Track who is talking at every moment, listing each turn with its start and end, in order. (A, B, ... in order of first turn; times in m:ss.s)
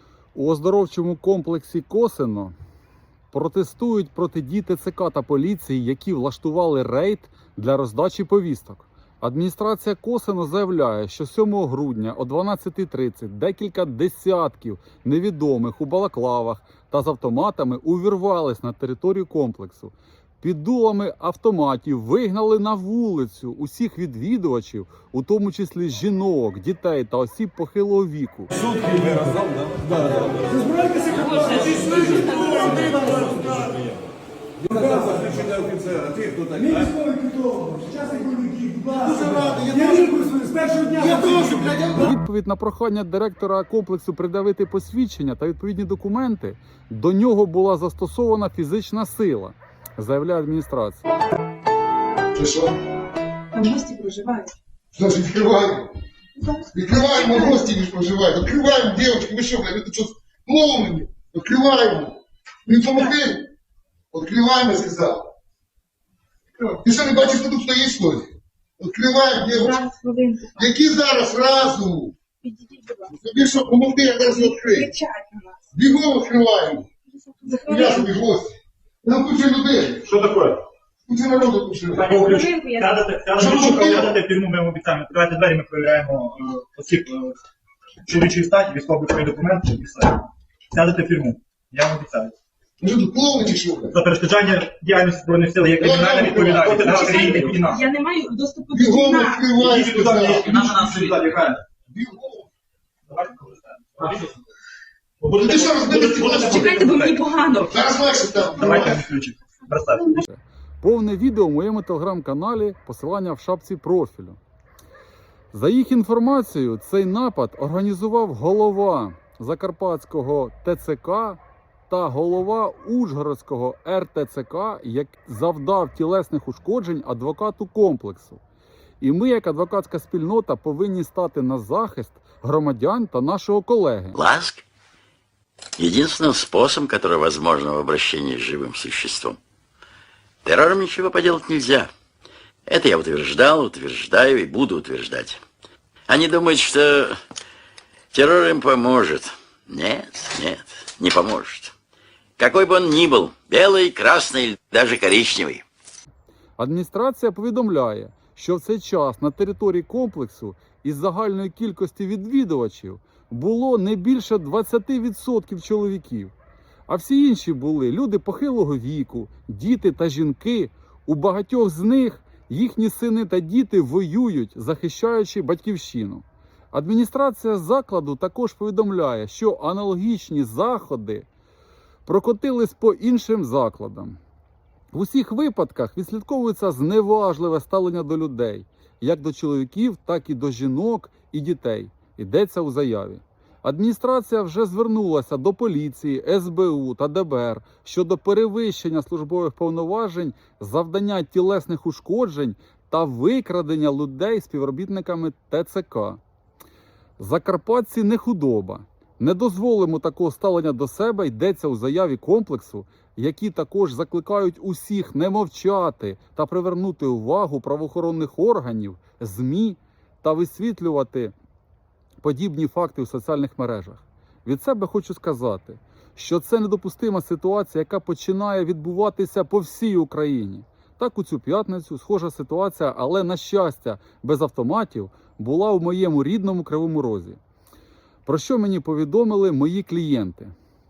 0:00.4-0:02.5 A
0:03.3-0:28.5 A
0:34.8-0:35.3 B
0:36.7-0:38.9 B
0:39.8-0:40.1 C
0:40.3-0:40.9 B
0:41.4-0:51.1 A
0:52.3-0:52.7 C
0:53.5-0:54.5 D
0:54.9-0:55.9 C
0:56.4-0:57.7 D
0:56.7-1:03.5 C
1:04.1-1:05.3 C
1:06.6-1:09.8 C
1:09.5-1:10.7 D
1:10.6-1:12.2 C
1:12.4-1:13.1 D
1:13.1-1:14.9 C
1:14.2-1:15.7 D
1:15.7-1:16.9 C
1:17.2-1:18.1 D
1:17.7-1:20.1 C
1:20.0-1:20.6 E
1:21.1-1:22.4 C
1:22.0-1:27.4 E
1:22.0-1:23.1 D
1:23.4-1:24.2 C
1:28.1-1:32.4 E
1:32.8-1:34.0 C
1:33.9-1:37.8 E
1:35.8-1:37.2 C
1:36.7-1:39.5 D
1:38.7-1:40.9 C
1:39.6-1:41.6 E
1:41.9-1:42.5 C
1:43.1-1:44.3 E
1:45.2-1:47.2 E
1:45.4-1:46.8 C
1:46.3-1:47.8 D
1:47.7-1:49.0 C
1:48.6-1:50.1 E
1:50.2-1:54.4 A
1:55.5-2:08.4 A
2:09.0-2:14.2 A
2:14.1-2:14.6 F
2:15.8-2:19.4 F
2:20.4-2:21.9 F
2:22.7-2:25.4 F
2:26.1-2:27.2 F
2:28.1-2:31.7 F
2:32.4-2:35.6 F
2:36.6-2:46.3 A
2:46.9-3:01.3 A
3:02.0-3:04.2 A
3:04.9-3:26.2 A
3:27.2-3:41.3 A
3:42.2-3:57.4 A
3:58.2-4:00.5 A